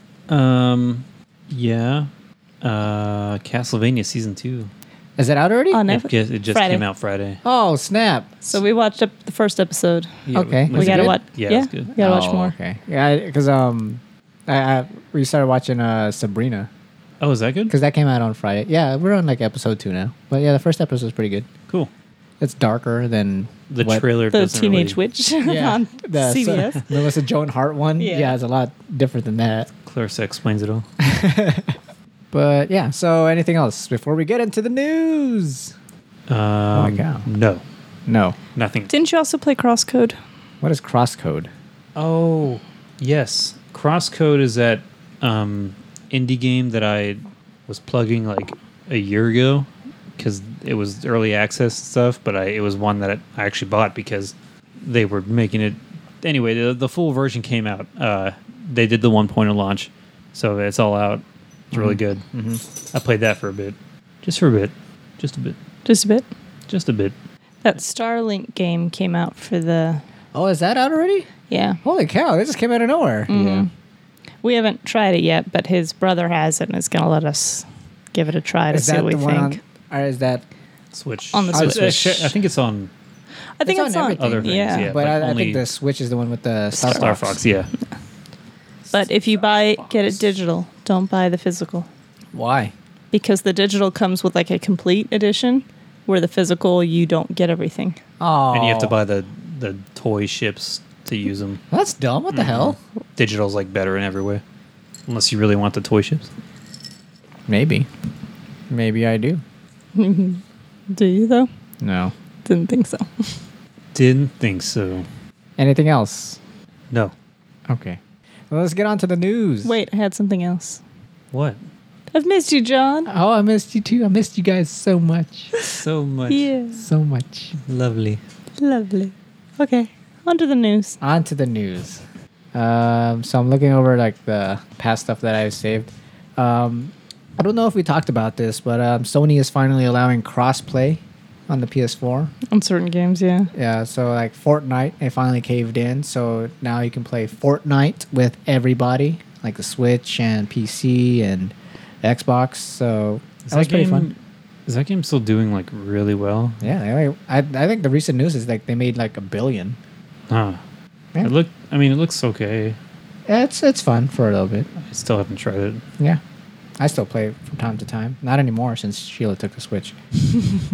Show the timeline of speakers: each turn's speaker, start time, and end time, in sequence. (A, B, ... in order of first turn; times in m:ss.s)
0:00.3-0:02.1 A
0:02.6-0:04.7 A
0:05.2-0:05.8 B
0:05.7-0:06.8 C
0:05.9-0:07.4 A
0:07.4-0:08.5 B
0:08.5-0:12.5 C
0:10.3-0:11.9 A
0:10.3-0:11.2 B
0:12.0-0:16.7 B
0:17.2-0:17.7 A
0:17.7-0:21.5 B
0:22.4-0:24.0 B
0:23.7-0:25.0 A
0:24.3-0:26.9 C
0:25.4-0:29.7 B
0:28.0-0:28.3 C
0:29.8-0:30.8 A
0:31.0-0:31.8 B
0:32.3-0:35.7 B
0:36.3-0:37.6 A
0:36.7-0:37.3 B
0:38.1-0:38.4 B
0:38.5-0:38.9 A
0:38.9-0:40.2 C
0:40.6-0:41.5 B
0:42.0-1:02.2 A
1:01.7-1:02.6 B
1:02.9-1:05.6 A
1:05.8-1:06.3 C
1:06.7-1:07.1 A
1:07.6-1:10.0 C
1:10.3-1:11.3 B
1:11.5-1:11.8 C
1:11.8-1:13.6 B
1:13.3-1:13.7 C
1:14.4-1:19.6 C
1:18.7-1:20.4 B
1:20.9-1:22.9 A
1:21.3-1:22.2 C
1:21.5-1:22.3 B
1:23.6-1:24.9 C
1:23.6-1:27.3 B
1:24.2-1:25.6 A
1:26.8-1:27.7 A
1:28.9-1:30.2 B
1:28.9-1:31.9 C
1:32.3-1:32.7 B
1:33.1-1:38.0 C
1:38.2-1:38.9 B
1:38.5-1:41.6 A
1:41.7-1:42.8 B
1:42.3-1:44.4 A
1:45.1-1:46.3 A
1:47.5-1:47.9 B
1:48.7-1:49.4 B
1:49.9-1:51.5 C
1:51.8-1:52.1 B
1:52.4-1:53.4 C
1:53.9-1:55.1 A
1:55.6-1:56.4 B
1:57.7-1:58.0 B
1:58.5-1:59.7 B
1:59.6-2:00.8 C
2:01.3-2:01.6 A
2:02.1-2:03.1 C
2:03.1-2:05.5 B
2:05.6-2:06.5 A
2:06.3-2:06.8 C
2:06.8-2:07.5 B
2:07.6-2:08.2 A
2:08.6-2:11.0 C
2:11.0-2:12.0 B
2:12.5-2:22.3 B
2:22.5-2:23.5 C
2:23.5-2:34.1 B
2:33.4-2:36.7 A
2:36.6-2:39.8 B
2:40.3-2:40.6 A
2:41.2-2:42.8 A
2:43.3-2:44.7 B
2:44.8-2:45.8 A
2:46.8-2:50.0 B